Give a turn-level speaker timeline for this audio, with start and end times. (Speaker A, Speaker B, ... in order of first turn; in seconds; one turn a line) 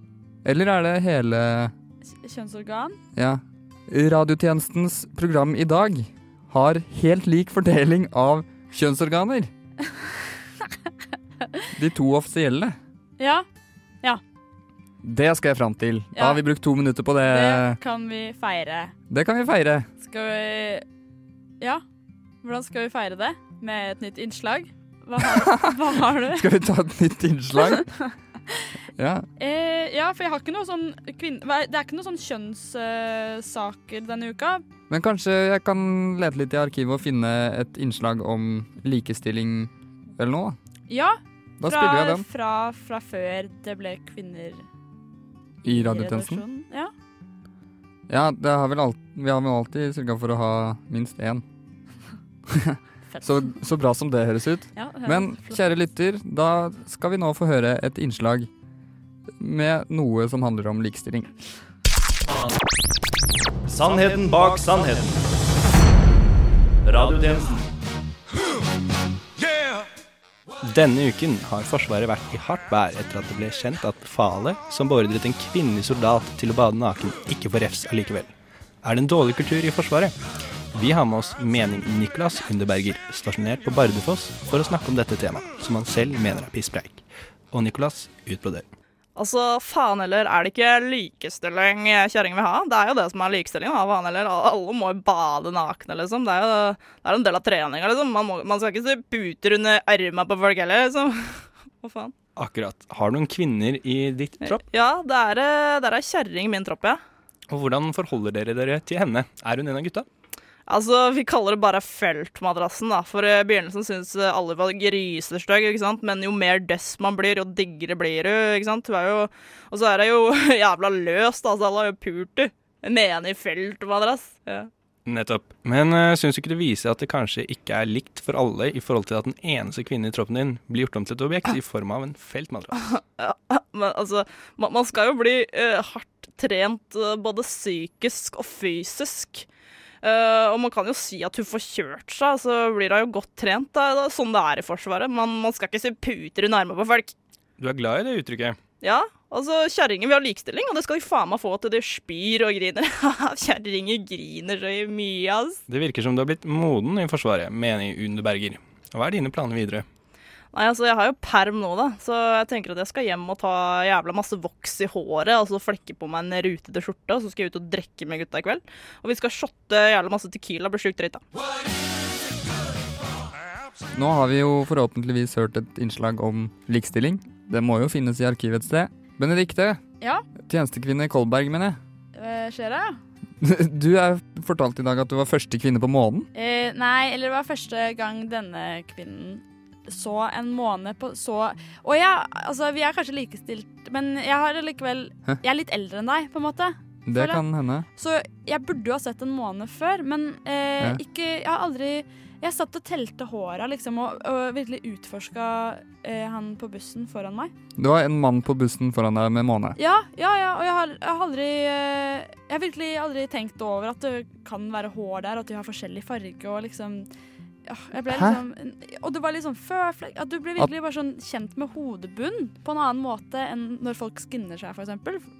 Speaker A: 0.4-1.7
Speaker B: 2.1-3.0
Speaker A: 3.2-9.5
Speaker A: 11.8-12.8
Speaker B: 13.2-13.4
Speaker A: 15.0-17.8
Speaker B: 16.1-16.4
Speaker B: 17.3-18.9
Speaker A: 19.1-19.9
Speaker B: 20.0-20.8
Speaker B: 22.4-26.5
Speaker A: 25.2-27.9
Speaker B: 27.6-27.9
Speaker A: 29.0-29.3
Speaker B: 29.4-34.6
Speaker A: 34.9-40.6
Speaker B: 40.9-44.6
Speaker A: 41.6-42.2
Speaker A: 45.6-46.4
Speaker B: 45.6-46.9
Speaker A: 48.1-51.4
Speaker A: 52.5-58.5
Speaker B: 53.1-53.5
Speaker B: 54.8-55.7
Speaker A: 59.4-61.3
Speaker C: 63.7-65.2
Speaker C: 66.8-67.6
Speaker D: 70.6-80.2
Speaker D: 80.7-88.7
Speaker E: 89.2-102.1
Speaker D: 102.4-104.7
Speaker E: 104.7-107.0
Speaker D: 107.5-110.1
Speaker E: 110.7-124.7
Speaker D: 125.1-132.8
Speaker E: 132.8-139.5
Speaker E: 140.0-147.1
Speaker D: 147.6-148.6
Speaker E: 148.8-155.6
Speaker D: 155.7-159.8
Speaker E: 160.5-171.2
Speaker A: 173.9-179.8
Speaker A: 180.4-181.8
Speaker B: 182.2-183.0
Speaker A: 183.4-186.3
Speaker B: 186.3-197.4
Speaker A: 197.1-197.9
Speaker B: 198.0-207.5
Speaker A: 207.8-209.8
Speaker B: 209.8-217.1
Speaker B: 217.7-225.3
Speaker A: 218.1-218.4